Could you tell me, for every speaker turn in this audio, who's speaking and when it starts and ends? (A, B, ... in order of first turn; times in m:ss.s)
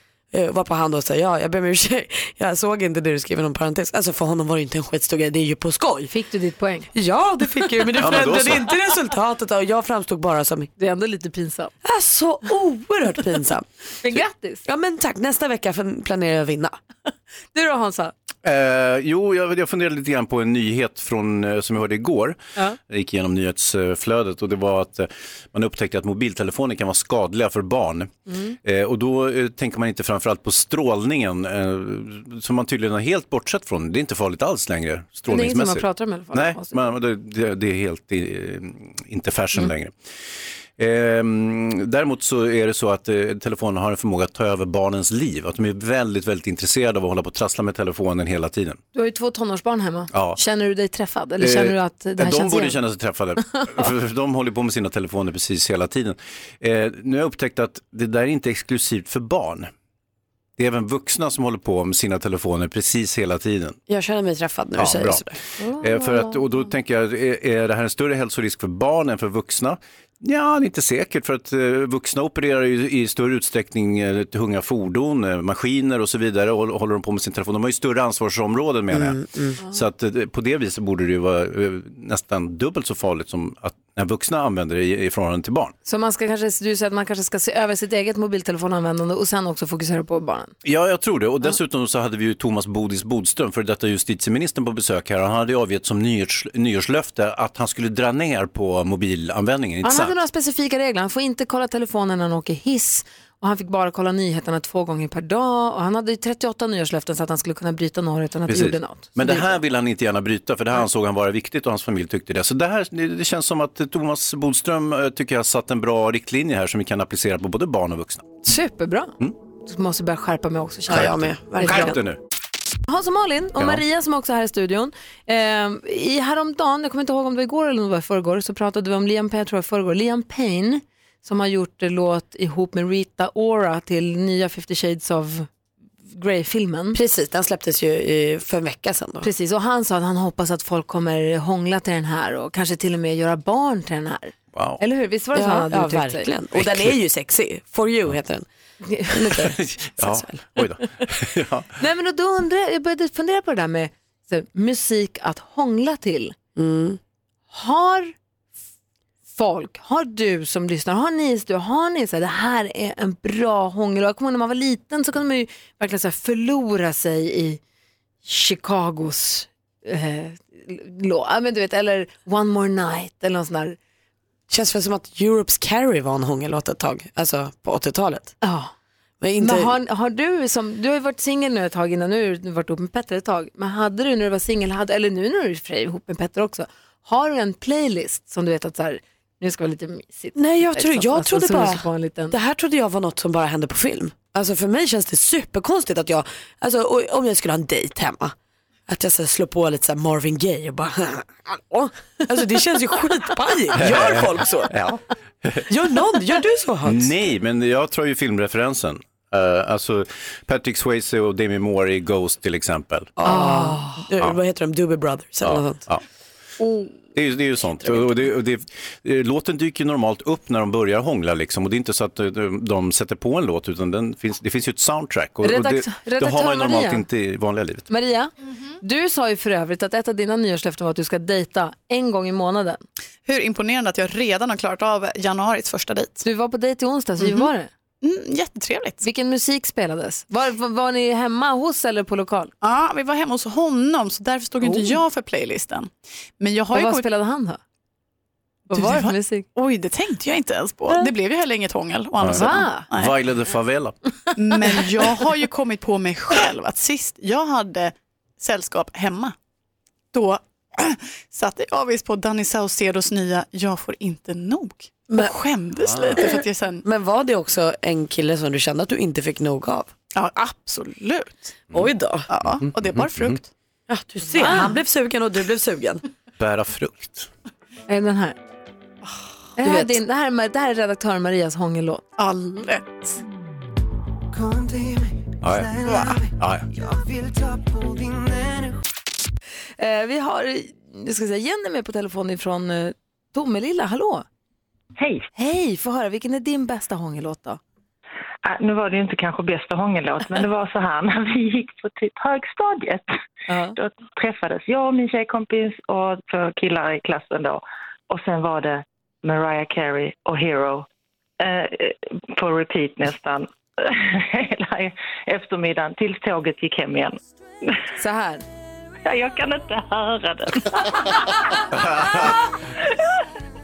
0:00.3-0:06.1 A
0:06.1-0:06.9 B
0:06.9-0:10.7 A
0:08.0-0:08.8 C
0:10.8-0:11.7 B
0:11.8-0:13.7 A
0:14.0-0:14.6 B
0:14.6-0:16.8 A
0:17.5-0:18.1 B
0:18.4-0:28.1 C
0:28.3-0:28.6 B
0:28.6-0:39.9 C
0:35.3-0:36.8 B
0:40.8-0:48.8 C
0:48.9-0:52.8 B
0:50.1-0:50.4 C
0:51.4-0:59.7 C
1:00.6-1:03.8 C
1:03.9-1:05.4 A
1:04.8-1:05.2 C
1:05.6-1:06.6 B
1:05.8-1:19.2 C
1:18.9-1:19.6 A
1:19.7-1:25.7 C
1:25.8-1:30.5 B
1:30.6-1:40.1 C
1:39.8-1:49.6 B
1:48.5-1:58.2 C
1:58.4-2:01.9 B
2:00.9-2:02.2 C
2:00.9-2:02.0 A
2:02.9-2:15.5 B
2:16.1-2:17.0 B
2:16.9-2:19.3 A
2:19.2-2:26.3 B
2:24.5-2:24.8 C
2:25.3-2:28.4 A
2:26.5-2:26.9 C
2:28.8-2:29.6 B
2:29.1-2:30.4 A
2:29.5-2:31.7 C
2:31.8-2:36.4 B
2:36.5-2:37.0 A
2:37.5-2:38.1 B
2:39.3-2:47.6 B
2:48.2-2:53.8 B
2:54.5-2:58.4 A
2:58.4-2:58.7 B
2:59.2-2:59.7 A
2:59.4-3:12.4 B
3:10.4-3:18.3 A
3:18.9-3:24.7 A
3:23.7-3:25.7 C
3:25.7-3:27.1 A
3:26.8-3:33.2 C
3:33.2-3:35.8 A
3:33.2-3:33.9 B
3:35.4-3:36.0 C
3:37.1-3:47.9 C
3:45.4-3:47.0 B
3:47.9-3:52.8 B
3:53.2-3:56.2 D
3:56.2-3:57.7 B
3:57.2-3:57.5 D
3:58.0-3:59.0 D
3:59.0-4:02.5 B
4:02.6-4:07.0 D
4:04.6-4:05.0 B
4:06.7-4:07.6 B
4:08.7-4:09.4 B
4:08.7-4:13.2 D
4:12.2-4:13.9 C
4:12.3-4:12.9 B
4:14.4-4:19.3 D
4:20.1-4:26.8 D
4:25.8-4:26.2 C
4:26.1-4:29.9 A
4:30.1-4:31.6 D
4:31.7-4:32.3 A
4:32.3-4:33.4 D
4:32.6-4:33.4 C
4:33.9-4:36.0 A
4:34.4-4:34.8 B
4:36.4-4:37.3 C
4:37.9-4:38.4 B
4:39.6-4:42.2 B
4:39.6-4:40.0 A
4:45.4-4:46.7 C
4:49.8-4:54.2 B
4:55.0-4:55.3 E
4:55.3-4:57.6 B
4:58.4-5:03.1 E
5:03.5-5:03.7 B
5:03.8-5:10.8 E
5:11.4-5:17.8 E
5:18.0-5:18.4 B
5:19.0-5:21.4 E
5:21.7-5:22.4 C